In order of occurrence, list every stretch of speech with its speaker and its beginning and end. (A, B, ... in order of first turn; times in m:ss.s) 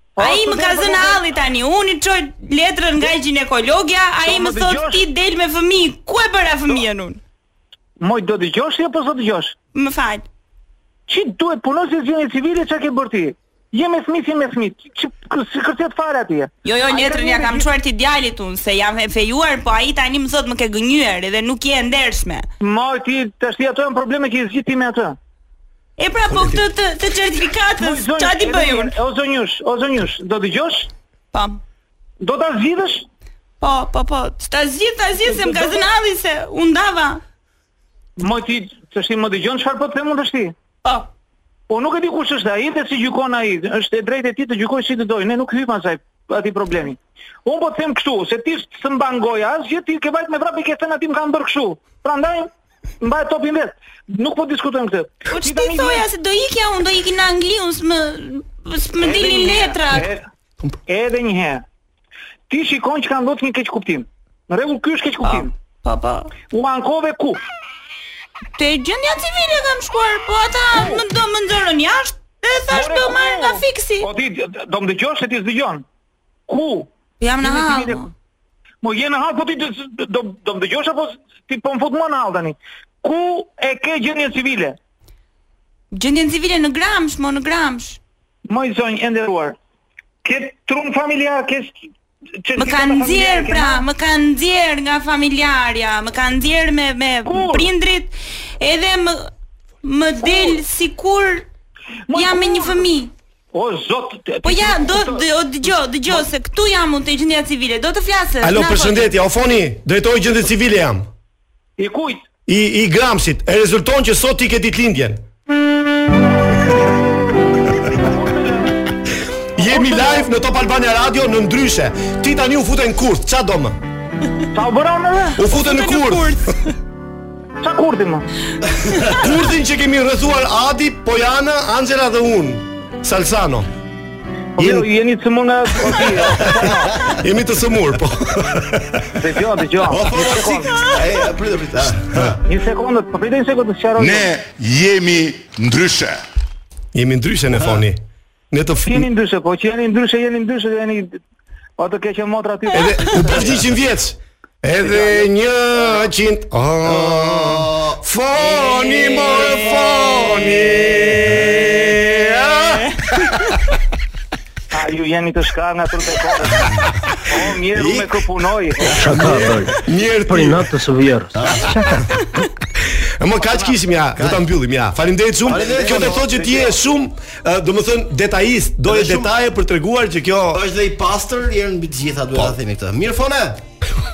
0:00.2-0:01.2 A
0:00.2-0:07.2 B
0:04.2-0:05.0 A
0:08.0-0:09.5 A
0:09.7-0:10.2 B
0:11.1-0:17.6 A
0:16.6-0:22.5 B
0:22.6-0:25.2 A
0:26.0-0:28.9 B
0:27.8-0:30.9 A
0:31.3-0:31.6 B
0:32.2-0:33.0 A
0:33.6-0:37.2 B
0:38.2-0:40.5 A
0:41.7-0:52.5 A
0:53.0-0:56.0 A
0:55.3-1:00.1 B
0:59.0-1:00.2 A
1:00.9-1:01.6 A
1:02.5-1:05.5 A
1:05.2-1:06.3 B
1:06.5-1:07.4 A
1:08.6-1:14.1 B
1:10.7-1:11.0 A
1:12.7-1:15.8 A
1:16.5-1:16.9 A
1:17.2-1:18.1 B
1:17.4-1:18.0 A
1:18.8-1:24.8 A
1:25.9-1:28.0 B
1:28.5-1:29.6 A
1:30.2-1:31.8 A
1:32.4-1:33.8 A
1:32.6-1:39.3 B
1:37.2-1:37.7 A
1:39.8-1:41.4 B
1:40.3-1:40.5 A
1:42.1-1:42.8 A
1:42.1-1:43.1 B
1:43.5-1:45.2 A
1:44.4-1:49.1 B
1:48.4-1:51.1 C
1:51.8-1:52.2 A
1:52.5-1:55.2 C
1:57.9-1:58.7 A
1:59.6-2:03.8 C
1:59.7-2:00.2 A
2:04.5-2:05.4 A
2:05.4-2:06.5 C
2:05.4-2:06.7 B
2:07.6-2:08.2 A
2:08.8-2:09.2 D
2:09.1-2:13.7 C
2:14.6-2:16.9 A
2:14.6-2:14.8 C
2:16.5-2:19.1 C
2:19.2-2:20.8 A
2:19.9-2:22.4 D
2:22.4-2:24.3 A
2:24.0-2:26.2 E
2:26.9-2:29.1 C
2:28.8-2:31.2 A
2:31.8-2:33.5 A
2:32.7-2:43.5 C
2:36.8-2:39.6 D
2:41.1-2:41.6 D
2:42.6-2:43.0 B
2:44.7-2:46.6 A
2:47.3-2:48.9 A
2:47.7-2:48.1 D
2:48.8-2:49.5 D
2:49.0-2:52.0 F
2:49.0-2:50.7 C
2:51.3-2:52.2 D
2:53.2-3:00.6 C
2:53.4-2:53.8 A
2:54.2-2:54.4 D
2:55.5-2:56.3 D
2:56.1-2:56.7 A
2:58.8-2:59.3 D
3:00.5-3:03.6 D